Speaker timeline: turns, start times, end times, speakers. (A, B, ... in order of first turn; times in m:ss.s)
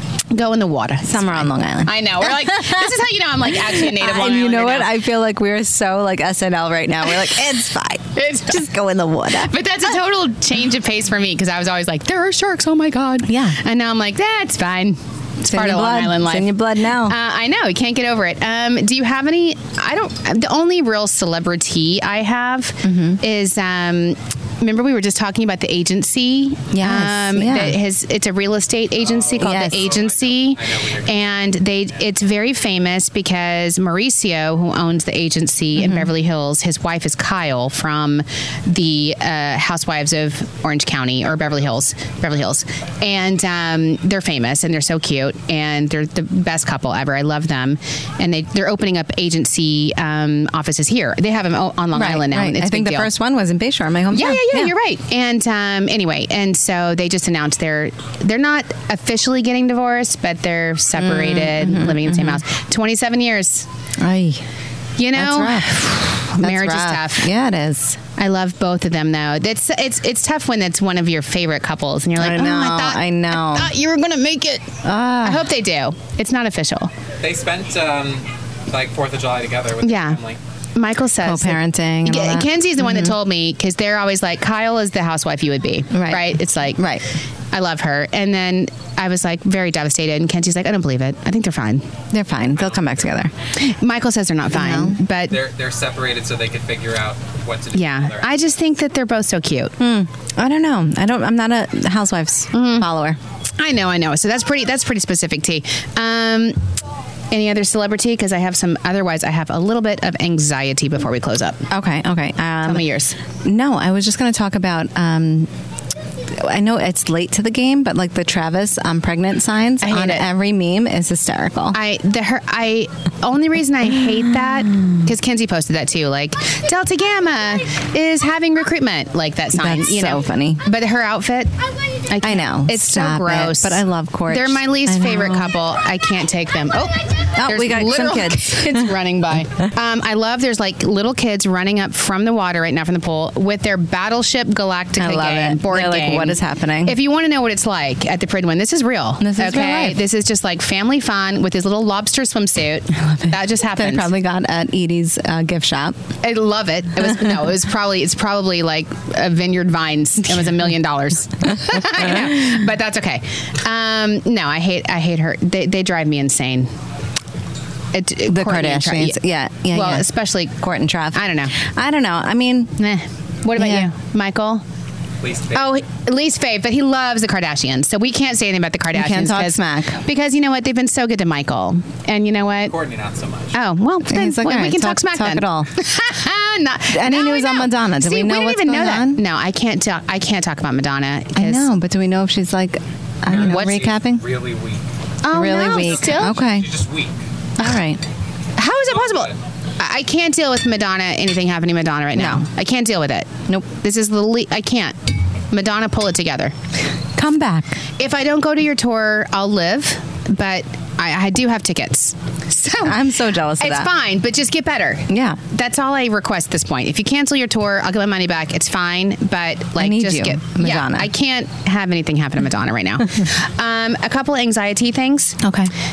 0:00.3-0:04.9 A
0:01.0-0:02.9 B
0:03.5-0:09.6 B
0:08.2-0:08.6 A
0:09.4-0:53.1 A
0:13.2-0:13.6 B
0:15.4-0:17.2 B
0:22.8-0:23.2 B
0:26.7-0:27.8 B
0:29.0-0:31.4 C
0:29.4-0:29.8 B
0:35.8-0:36.1 B
0:51.9-0:54.7 B
0:54.1-1:03.7 A
1:00.9-1:02.4 B
1:04.0-1:04.4 B
1:05.0-1:07.3 A
1:05.1-1:08.0 B
1:08.2-1:14.7 A
1:12.2-1:13.7 B
1:14.8-1:15.5 B
1:15.2-1:16.9 A
1:17.2-1:20.4 C
1:19.8-1:20.2 A
1:20.8-1:26.8 A
1:21.2-1:23.2 B
1:25.9-1:27.0 B
1:27.5-1:31.9 A
1:32.1-1:33.3 B
1:32.5-1:33.2 C
1:33.6-1:35.4 A
1:34.5-1:35.0 B
1:35.2-1:38.4 C
1:37.7-1:39.7 A
1:39.8-1:43.2 B
1:42.5-1:42.9 A
1:43.6-1:46.6 A
1:47.3-1:51.6 A
1:51.7-1:52.8 B
1:52.6-1:53.2 A
1:53.4-1:55.5 B
1:56.3-2:01.8 B
1:59.8-2:00.2 A
2:01.7-2:11.5 A
2:03.8-2:05.1 B
2:09.5-2:10.6 B
2:12.0-2:34.1 A
2:12.2-2:15.5 B
2:17.3-2:18.9 B
2:25.0-2:27.0 B
2:29.2-2:30.0 B
2:32.9-2:36.0 B
2:36.2-2:46.7 A
2:37.0-2:37.3 B
2:42.0-2:42.3 B
2:47.9-2:49.2 A
2:48.3-2:50.1 B
2:49.7-2:50.6 A
2:50.6-2:52.8 B
2:51.1-2:51.5 A
2:52.8-2:54.6 A
2:53.6-2:53.9 B
2:55.2-2:55.8 C
2:55.5-3:02.7 A
2:58.9-3:00.0 B
3:02.6-3:03.6 C
3:03.5-3:11.7 A
3:04.0-3:05.7 B
3:06.9-3:09.2 B
3:11.3-3:14.2 B
3:13.2-3:14.8 C
3:13.4-3:13.8 A
3:15.2-3:16.4 A
3:15.3-3:16.7 B
3:15.6-3:17.2 C
3:17.6-3:18.0 B
3:18.6-3:24.9 A
3:18.8-3:19.4 C
3:22.1-3:22.4 B
3:25.5-3:26.5 A
3:27.2-3:27.8 B
3:28.0-3:33.0 A
3:32.8-3:33.9 B
3:33.6-3:45.4 A
3:35.1-3:35.4 B
3:39.8-3:41.1 B
3:45.4-3:45.7 B